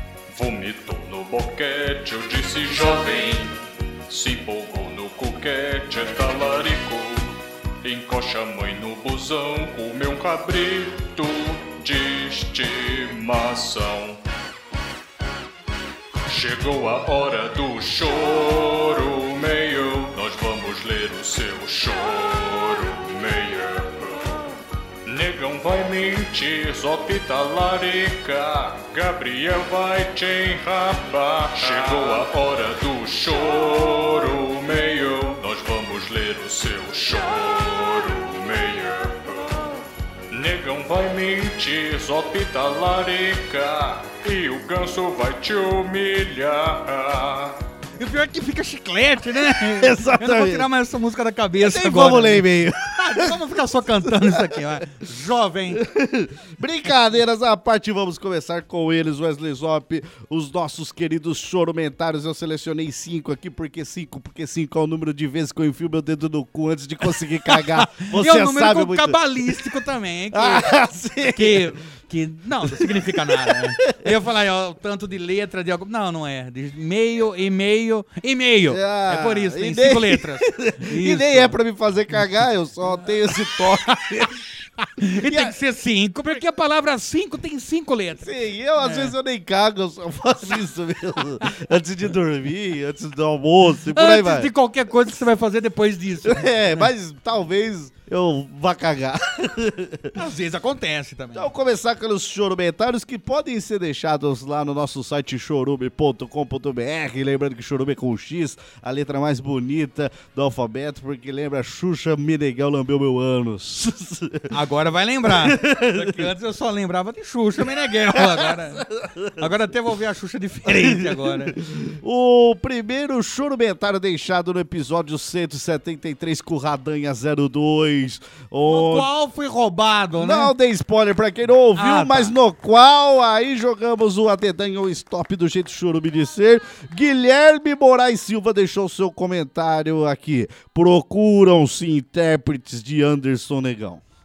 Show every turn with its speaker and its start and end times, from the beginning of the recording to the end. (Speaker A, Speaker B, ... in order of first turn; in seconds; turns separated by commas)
Speaker A: 0.3-14.2, Speaker A: 16.3-24.4, Speaker A: 25.1-39.8, Speaker A: 40.3-47.6, Speaker B: 48.0-55.8, Speaker C: 49.5-50.7, Speaker C: 51.6-53.4, Speaker C: 54.0-54.7, Speaker C: 55.7-69.5, Speaker B: 67.5-70.7, Speaker C: 70.3-71.7, Speaker B: 71.3-81.6, Speaker C: 72.7-74.1, Speaker C: 78.7-84.5, Speaker B: 85.0-89.2, Speaker C: 85.2-85.6, Speaker C: 88.2-94.5, Speaker B: 93.9-96.9, Speaker C: 96.2-100.1, Speaker B: 100.1-101.5, Speaker C: 101.3-114.5, Speaker B: 114.5-121.6, Speaker C: 115.2-116.3, Speaker C: 118.1-119.5, Speaker C: 120.7-129.1, Speaker B: 128.7-130.5, Speaker C: 130.2-144.0, Speaker B: 131.8-132.3